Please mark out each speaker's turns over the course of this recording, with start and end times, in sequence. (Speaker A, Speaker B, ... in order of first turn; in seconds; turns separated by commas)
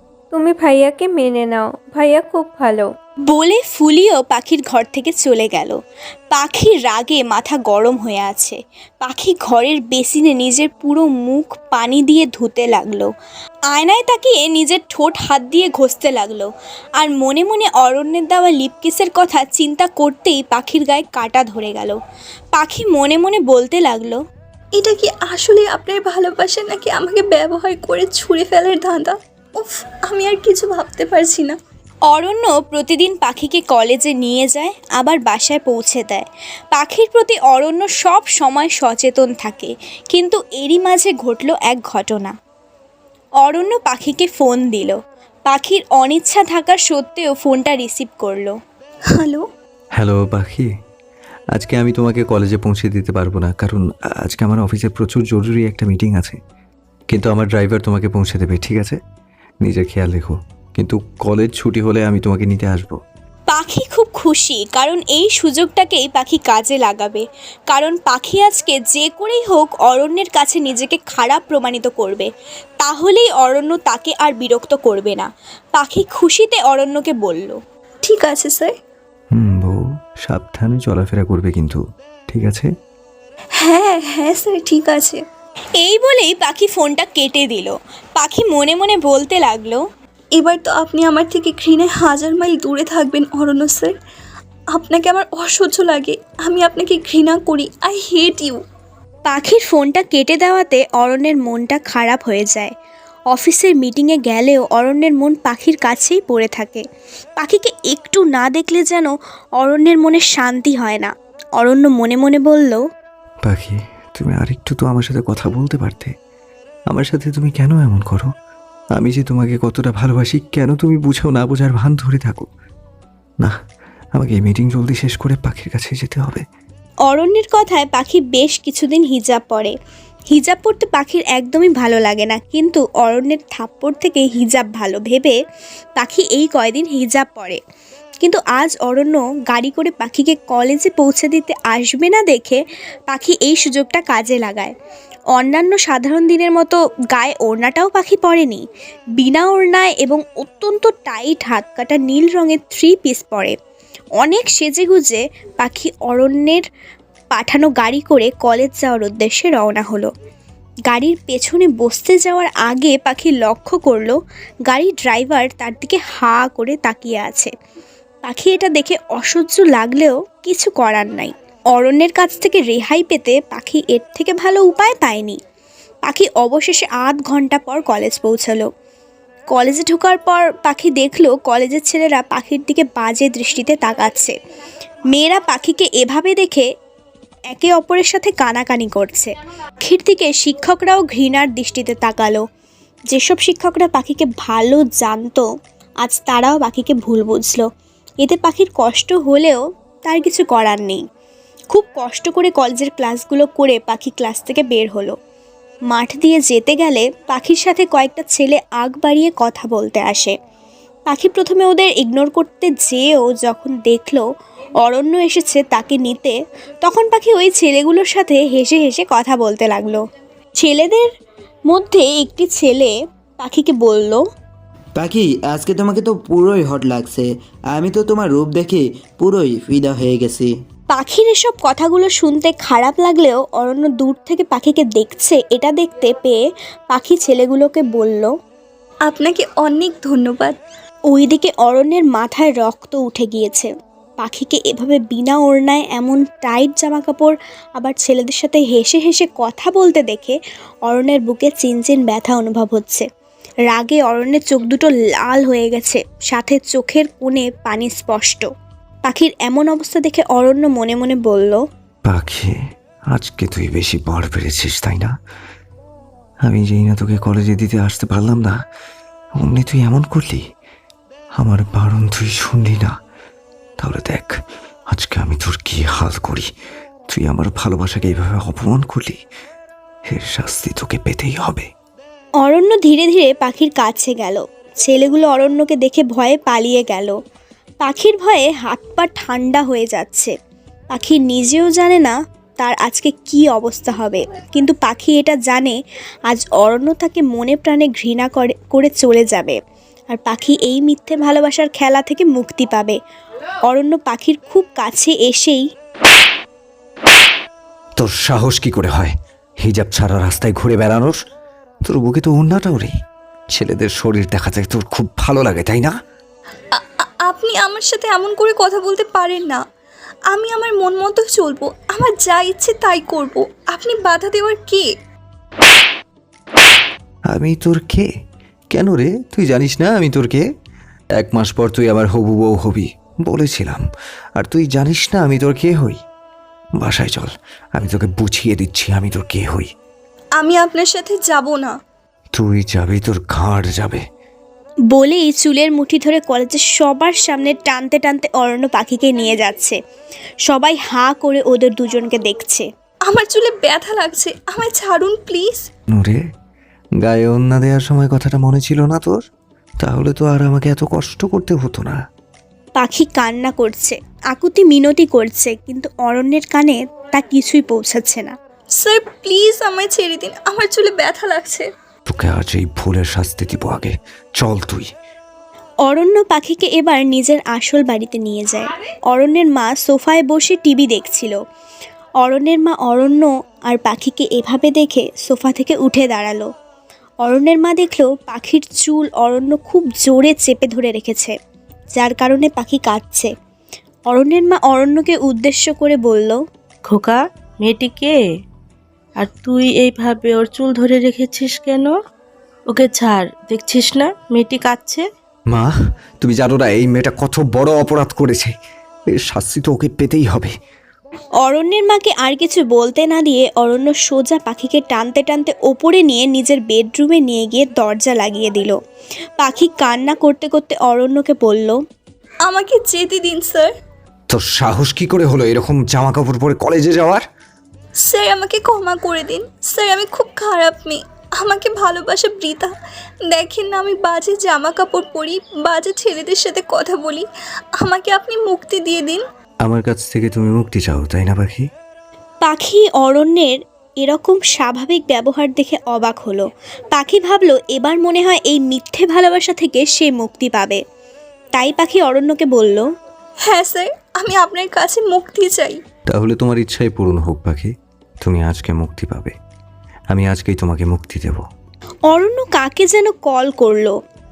Speaker A: 0.3-2.9, Speaker B: 3.3-5.8, Speaker B: 6.3-13.1, Speaker B: 13.7-16.5, Speaker B: 17.0-22.0, Speaker B: 22.6-24.2, Speaker C: 24.8-31.6, Speaker B: 32.1-42.3, Speaker B: 43.4-45.0, Speaker B: 45.5-48.5, Speaker C: 49.1-49.4, Speaker D: 50.0-50.7, Speaker D: 51.5-56.4, Speaker D: 57.1-59.0, Speaker D: 59.6-63.0, Speaker B: 63.5-72.3, Speaker B: 72.8-77.6, Speaker C: 78.0-78.7, Speaker D: 79.3-82.7, Speaker C: 83.6-85.2, Speaker B: 85.8-89.8, Speaker C: 90.4-93.9, Speaker C: 94.7-98.6, Speaker B: 99.3-102.7, Speaker B: 103.3-106.8, Speaker B: 107.4-112.8, Speaker D: 113.5-116.1, Speaker D: 116.9-118.3, Speaker D: 119.0-122.5, Speaker D: 124.2-126.4, Speaker B: 127.1-129.7, Speaker B: 130.3-135.4, Speaker B: 136.0-137.6, Speaker B: 138.2-144.7, Speaker B: 145.4-148.6, Speaker B: 149.2-153.6, Speaker B: 154.2-156.6, Speaker B: 157.3-160.1, Speaker B: 160.9-164.2, Speaker B: 164.7-167.5, Speaker B: 168.2-175.4, Speaker B: 176.1-178.7, Speaker B: 179.5-184.3, Speaker B: 185.1-186.7, Speaker B: 187.5-189.3, Speaker B: 189.8-192.4, Speaker B: 193.1-195.4, Speaker B: 196.0-197.7, Speaker B: 198.2-201.0, Speaker B: 201.7-205.2, Speaker B: 205.9-210.3, Speaker B: 211.1-214.2, Speaker B: 214.8-220.0, Speaker B: 220.6-221.1, Speaker B: 221.7-224.2, Speaker E: 225.0-230.5, Speaker B: 230.9-236.4, Speaker B: 236.9-238.3, Speaker C: 239.1-240.6, Speaker B: 241.1-243.7, Speaker B: 244.2-253.1, Speaker B: 253.7-258.5, Speaker B: 259.1-261.6, Speaker D: 262.1-262.5, Speaker D: 263.1-265.1, Speaker D: 266.5-268.5, Speaker D: 269.4-270.4, Speaker D: 271.4-272.9, Speaker D: 273.8-274.3, Speaker D: 274.9-276.5, Speaker D: 277.1-279.2, Speaker D: 280.1-281.7, Speaker B: 282.4-287.1, Speaker B: 287.8-290.3, Speaker B: 290.9-295.8, Speaker B: 296.3-299.6, Speaker B: 300.1-302.9, Speaker B: 303.7-305.6, Speaker D: 308.0-311.2, Speaker D: 311.8-312.9, Speaker D: 313.5-315.9, Speaker C: 316.7-319.6, Speaker C: 320.3-324.9, Speaker D: 327.3-328.1, Speaker D: 328.7-330.4, Speaker D: 331.2-333.8, Speaker D: 334.4-336.0, Speaker D: 336.8-339.7, Speaker C: 340.4-341.7, Speaker D: 342.3-344.0, Speaker B: 344.9-349.8, Speaker B: 350.5-352.6, Speaker C: 353.1-355.6, Speaker D: 355.9-356.2, Speaker D: 357.0-359.1, Speaker D: 359.8-362.0, Speaker B: 362.8-368.3, Speaker C: 368.8-371.7, Speaker D: 372.1-374.9, Speaker B: 375.9-381.4, Speaker B: 382.2-386.5, Speaker B: 387.2-391.3, Speaker B: 392.0-393.3, Speaker B: 394.1-396.4, Speaker F: 396.9-398.2, Speaker F: 399.2-401.9, Speaker F: 402.7-405.1, Speaker D: 406.2-408.5, Speaker D: 409.1-410.5, Speaker B: 411.4-418.8, Speaker B: 419.4-421.8, Speaker C: 422.4-423.7, Speaker D: 424.3-427.2, Speaker C: 428.0-432.7, Speaker C: 433.3-437.2, Speaker C: 437.8-439.2, Speaker D: 439.6-441.7, Speaker B: 442.4-450.8, Speaker B: 451.6-452.8, Speaker C: 453.4-455.8, Speaker D: 456.1-459.3, Speaker D: 460.1-461.4, Speaker B: 462.1-463.9